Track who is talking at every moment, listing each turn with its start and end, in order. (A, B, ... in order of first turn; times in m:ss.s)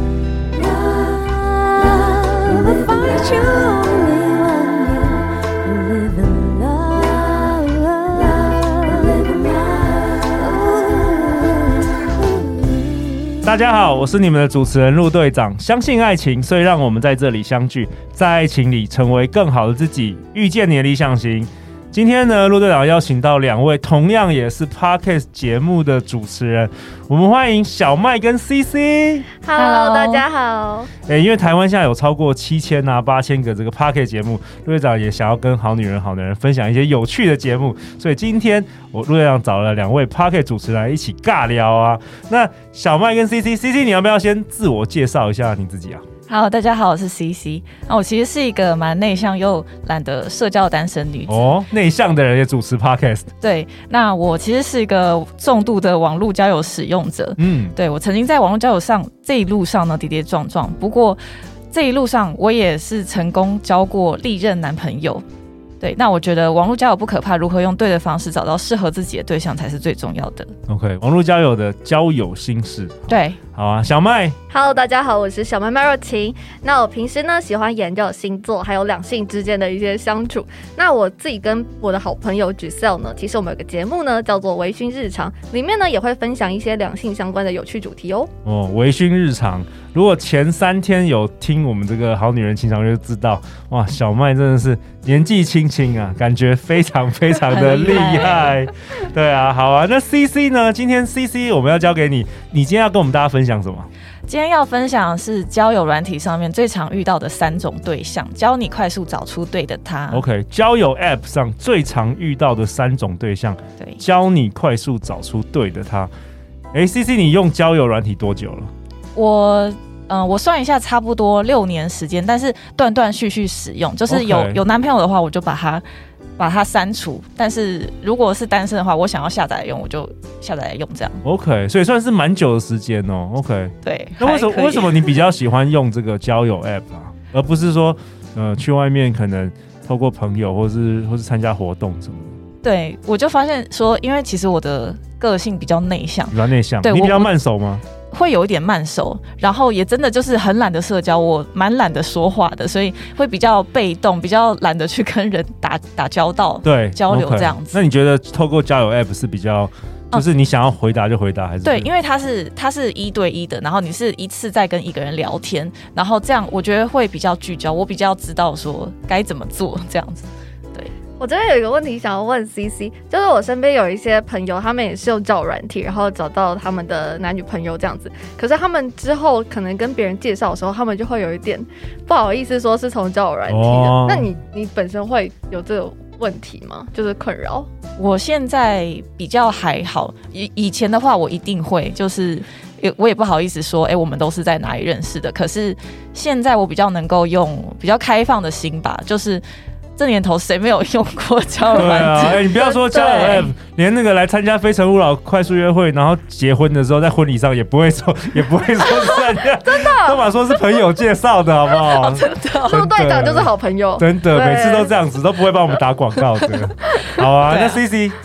0:01.0-0:11.6 A
0:12.5-0:13.0 A
0:13.4-0:29.3 B
0:29.4-0:30.9 C
0:29.5-0:30.2 D
0:31.1-0:46.0 B
0:46.3-0:51.5 D
0:51.3-0:53.3 B
0:53.4-1:01.2 D
0:57.4-0:57.8 B
1:01.7-1:05.2 D
1:05.8-1:10.5 D
1:10.7-1:14.4 B
1:13.1-1:13.4 D
1:14.5-1:28.3 C
1:28.4-1:43.9 B
1:37.5-1:38.6 D
1:44.3-1:50.2 D
1:50.1-1:56.1 B
1:56.7-1:58.7 B
1:59.2-2:05.8 D
2:04.1-2:04.6 B
2:06.4-2:11.2 D
2:11.2-2:22.3 B
2:13.8-2:15.2 D
2:22.6-2:27.3 D
2:26.3-2:27.8 B
2:28.1-2:37.8 D
2:36.6-2:41.9 B
2:41.6-2:50.9 D
2:51.2-3:07.7 C
3:03.5-3:04.3 B
3:08.0-3:19.4 D
3:20.0-3:23.5 D
3:21.7-3:38.2 B
3:29.6-3:30.2 C
3:31.8-3:32.8 D
3:32.6-3:34.9 C
3:37.4-3:37.8 D